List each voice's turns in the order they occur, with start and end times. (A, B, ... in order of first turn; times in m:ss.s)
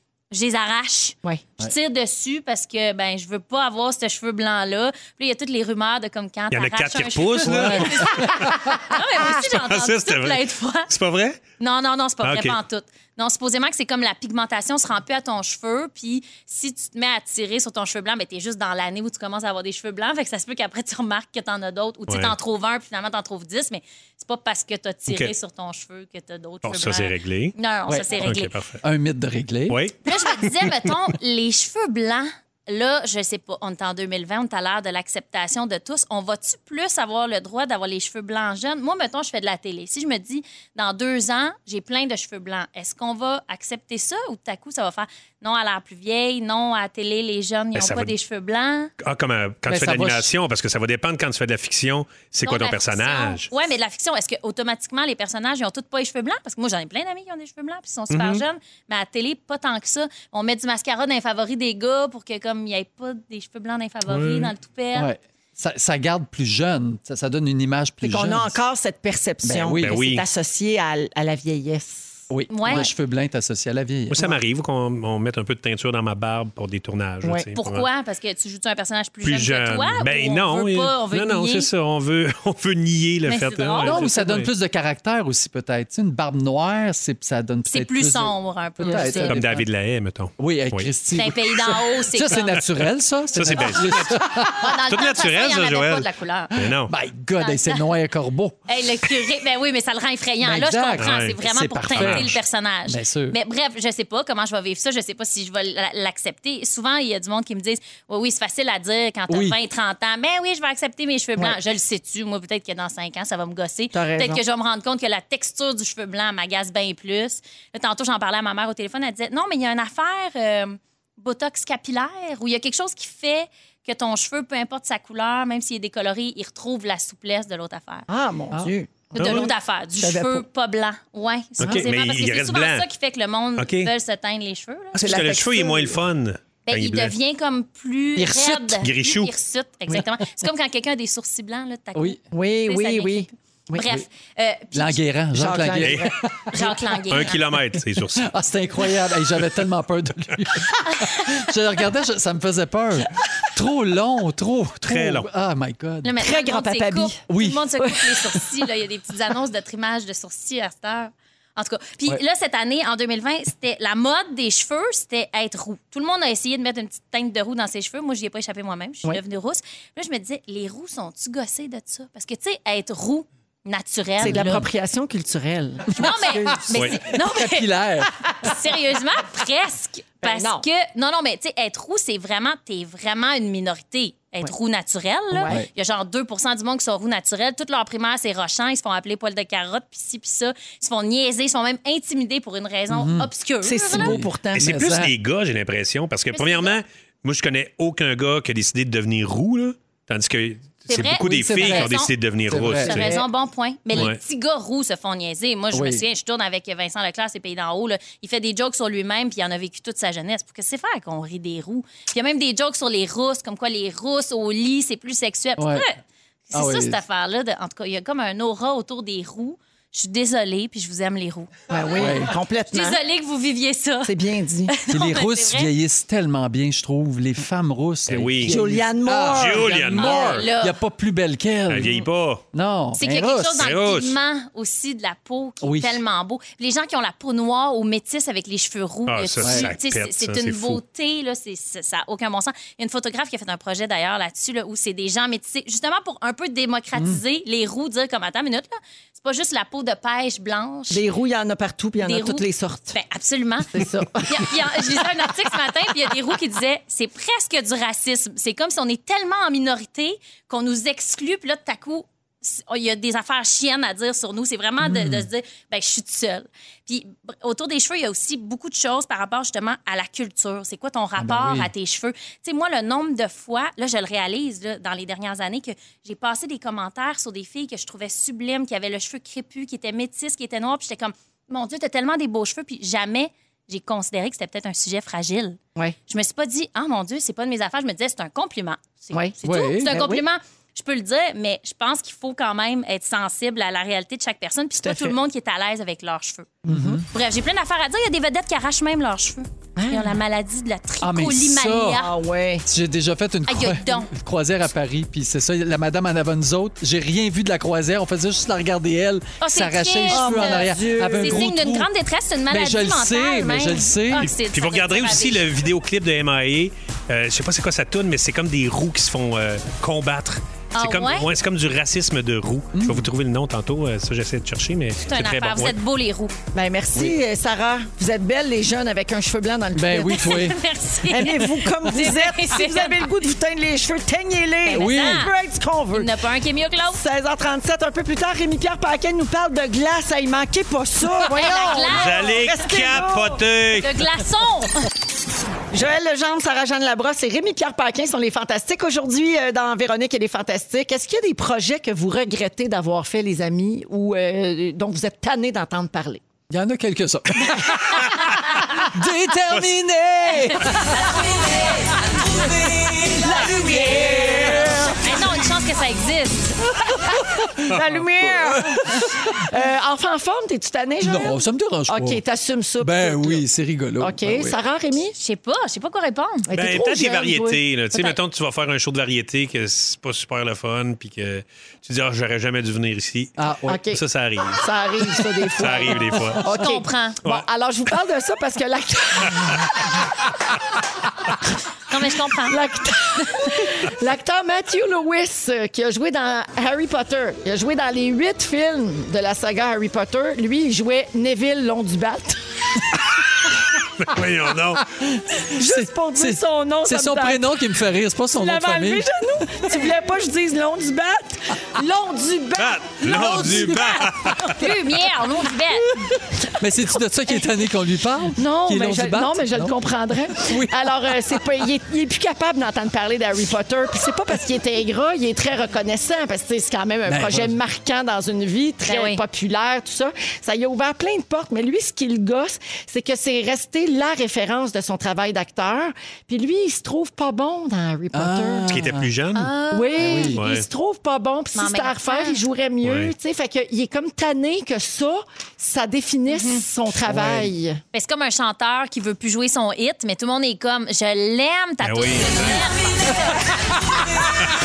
0:00.3-0:10.9 A
0:06.5-0:11.4 B
0:07.4-0:08.4 C
0:11.6-0:28.6 A
0:12.2-0:12.6 B
0:22.1-0:22.4 B
0:26.6-0:27.6 B
0:27.9-0:28.2 C
0:28.2-0:28.8 B
0:28.8-0:29.8 C
0:29.7-0:30.9 B
0:30.0-0:48.9 A
0:47.8-0:48.1 B
0:49.0-0:53.5 B
0:49.7-0:50.3 C
0:52.4-1:05.1 A
0:58.1-0:58.4 B
1:04.1-1:04.5 B
1:04.9-1:08.6 C
1:08.0-1:12.9 D
1:09.4-1:10.0 C
1:09.8-1:10.3 B
1:12.3-1:14.4 C
1:12.5-1:12.9 A
1:14.1-1:17.9 B
1:17.6-1:21.7 A
1:19.2-1:24.5 B
1:23.3-1:24.0 A
1:23.8-1:29.6 C
1:27.7-1:29.4 A
1:29.1-1:30.9 B
1:30.4-1:34.8 C
1:31.1-1:32.6 A
1:33.3-1:36.9 B
1:34.6-1:36.5 A
1:36.5-1:38.6 C
1:37.4-1:37.8 A
1:38.7-2:08.1 A
1:40.4-1:43.4 C
1:41.0-1:41.4 B
1:41.9-1:42.4 B
1:49.3-1:49.6 C
1:53.9-1:54.4 D
2:08.1-2:10.4 D
2:09.1-2:15.1 A
2:09.2-2:09.5 B
2:11.6-2:12.9 B
2:13.6-2:13.9 B
2:15.0-2:17.1 B
2:15.0-2:16.0 D
2:16.7-2:25.0 A
2:18.2-2:18.8 C
2:18.8-2:19.3 B
2:22.3-2:24.0 D
2:24.7-2:26.5 C
2:25.3-2:27.2 D
2:25.8-2:26.1 B
2:26.5-2:27.4 A
2:27.1-2:28.3 B
2:28.2-2:36.1 C
2:30.9-2:31.3 A
2:34.8-2:35.3 B
2:36.0-2:54.6 A
2:36.2-2:37.3 D
2:37.3-2:37.7 C
2:37.8-2:38.4 D
2:54.2-2:54.6 C
2:54.2-2:56.6 D
2:55.9-2:57.7 A
2:56.0-2:58.5 C
2:58.4-3:14.2 A
3:00.2-3:00.7 D
3:05.4-3:05.6 D
3:12.9-3:13.3 C
3:13.6-3:14.8 D
3:13.9-3:15.1 C
3:14.6-3:23.1 B
3:16.3-3:16.8 A
3:20.9-3:22.1 A
3:21.1-3:21.9 C
3:22.5-3:23.1 C
3:22.8-3:41.5 A
3:22.9-3:23.2 D
3:23.9-3:24.2 B
3:25.7-3:26.0 C
3:35.6-3:35.9 C
3:36.5-3:37.0 C
3:41.7-3:43.0 D
3:42.0-3:42.4 C
3:42.7-3:44.1 A
3:44.0-3:44.8 D
3:44.7-3:45.7 A
3:44.9-3:53.6 C
3:48.1-3:48.6 B
3:48.4-3:50.0 D
3:49.3-3:50.5 B
3:50.0-3:50.8 A
3:51.7-3:52.4 B
3:53.0-4:11.0 A
3:53.6-3:54.2 B
3:55.6-3:56.0 C
3:59.1-4:00.8 B
3:59.4-3:59.7 C
4:10.9-4:13.0 D
4:12.0-4:56.6 A
4:13.7-4:15.1 D
4:24.8-4:25.3 C
4:31.2-4:31.7 C
4:49.4-4:50.0 C
4:49.9-4:50.2 D
4:54.8-4:55.2 D
4:56.7-4:57.0 D
4:56.7-4:57.0 C
4:57.1-5:02.1 A
4:59.8-5:00.2 D
5:01.0-5:02.0 C
5:02.0-5:02.6 D
5:02.7-5:11.9 C
5:03.5-5:04.1 A
5:09.4-5:15.5 A
5:10.1-5:11.5 D
5:12.5-5:14.3 C
5:14.2-5:25.8 B
5:20.8-5:21.3 A
5:22.7-5:23.1 C
5:25.0-5:26.4 A
5:26.5-5:30.5 D
5:29.8-5:30.6 C
5:30.1-5:33.1 A
5:31.1-5:36.1 D
5:34.6-5:35.3 A
5:34.7-5:35.3 C
5:35.9-5:37.0 A
5:36.9-5:43.4 D
5:41.3-5:42.5 A
5:41.9-5:44.0 B
5:43.8-5:44.9 A
5:45.7-5:56.2 D
5:56.5-6:01.4 C
6:02.3-6:05.0 C
6:02.9-6:05.2 D
6:05.0-6:06.6 A
6:06.9-6:09.1 C
6:07.7-6:13.5 D
6:11.0-6:12.2 C
6:12.8-6:14.6 C
6:14.0-6:15.2 D
6:15.2-6:16.5 A
6:16.5-6:18.0 D
6:16.5-6:23.4 B
6:23.4-6:23.8 C
6:23.7-6:24.0 D
6:23.9-6:24.6 B
6:24.6-6:30.1 D
6:25.6-6:26.4 B
6:26.5-6:27.2 A
6:31.9-6:32.6 A
6:32.4-6:43.0 D
6:44.0-6:44.9 B
6:44.8-6:49.1 C
6:45.5-6:47.6 D
6:48.3-6:54.0 D
6:52.6-6:54.6 B
6:53.0-6:54.5 C
6:54.5-6:56.0 A
6:55.9-6:59.8 C
6:58.4-7:18.7 D
7:00.3-7:00.9 C
7:07.1-7:07.6 C
7:08.9-7:09.2 A
7:18.1-7:19.1 C
7:18.7-7:19.5 B
7:19.4-7:20.4 A
7:19.7-7:27.8 D
7:20.0-7:20.4 C
7:20.4-7:20.7 B
7:21.6-7:22.4 A
7:22.8-7:23.1 B
7:26.3-7:26.6 A
7:27.1-7:27.5 C
7:27.9-7:33.5 A
7:31.8-7:32.7 B
7:33.8-7:34.3 C